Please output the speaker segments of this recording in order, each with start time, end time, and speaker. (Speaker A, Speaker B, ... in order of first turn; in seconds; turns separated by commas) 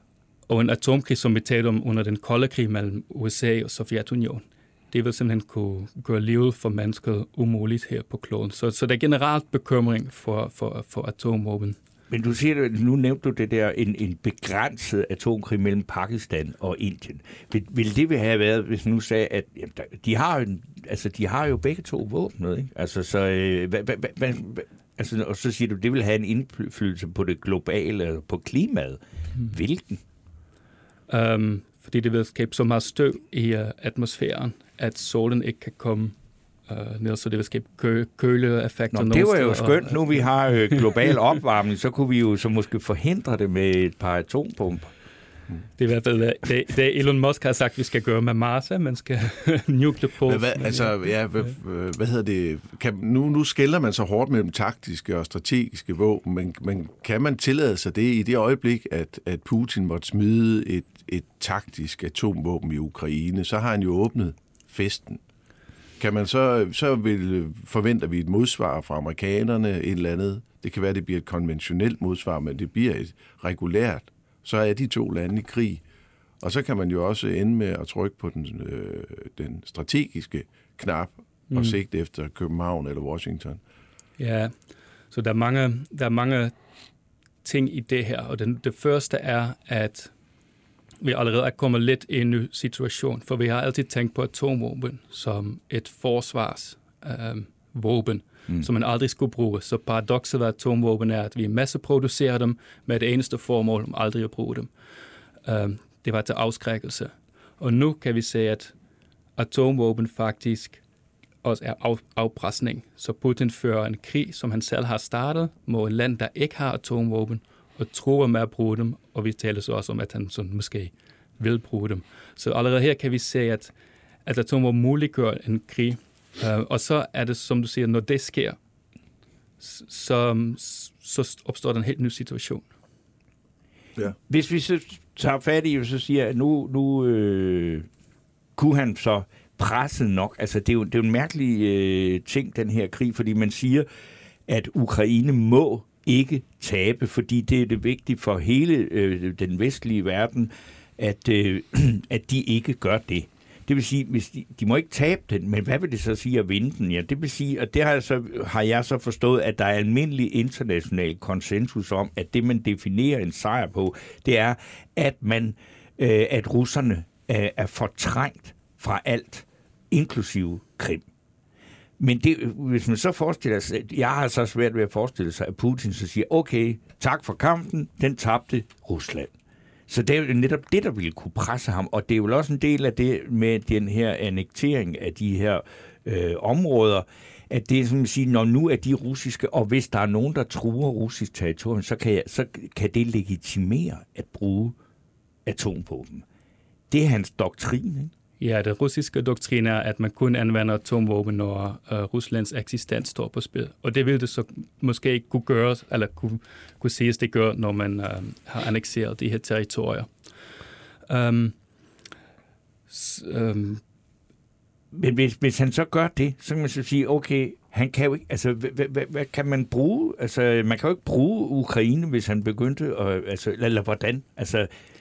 Speaker A: 0.5-11.8, Speaker B: 12.1-29.0, Speaker B: 29.5-30.0, Speaker A: 31.1-36.1, Speaker A: 36.7-41.1, Speaker B: 38.9-44.9, Speaker A: 45.8-51.0, Speaker C: 50.2-65.2, Speaker C: 66.0-75.8, Speaker C: 76.4-83.6, Speaker A: 81.5-81.8, Speaker A: 84.2-84.5, Speaker A: 85.1-86.5, Speaker A: 87.4-90.1, Speaker A: 91.0-104.7, Speaker A: 105.4-108.7, Speaker A: 109.4-110.8, Speaker A: 111.4-123.7, Speaker A: 124.2-128.6, Speaker A: 129.6-132.6, Speaker B: 134.3-137.9, Speaker B: 138.6-143.9, Speaker B: 144.5-171.0, Speaker B: 172.0-179.3, Speaker B: 179.9-194.7, Speaker B: 195.4-196.2, Speaker B: 196.9-198.1, Speaker A: 198.4-210.1, Speaker A: 211.1-211.6, Speaker A: 212.9-213.8, Speaker B: 214.9-224.7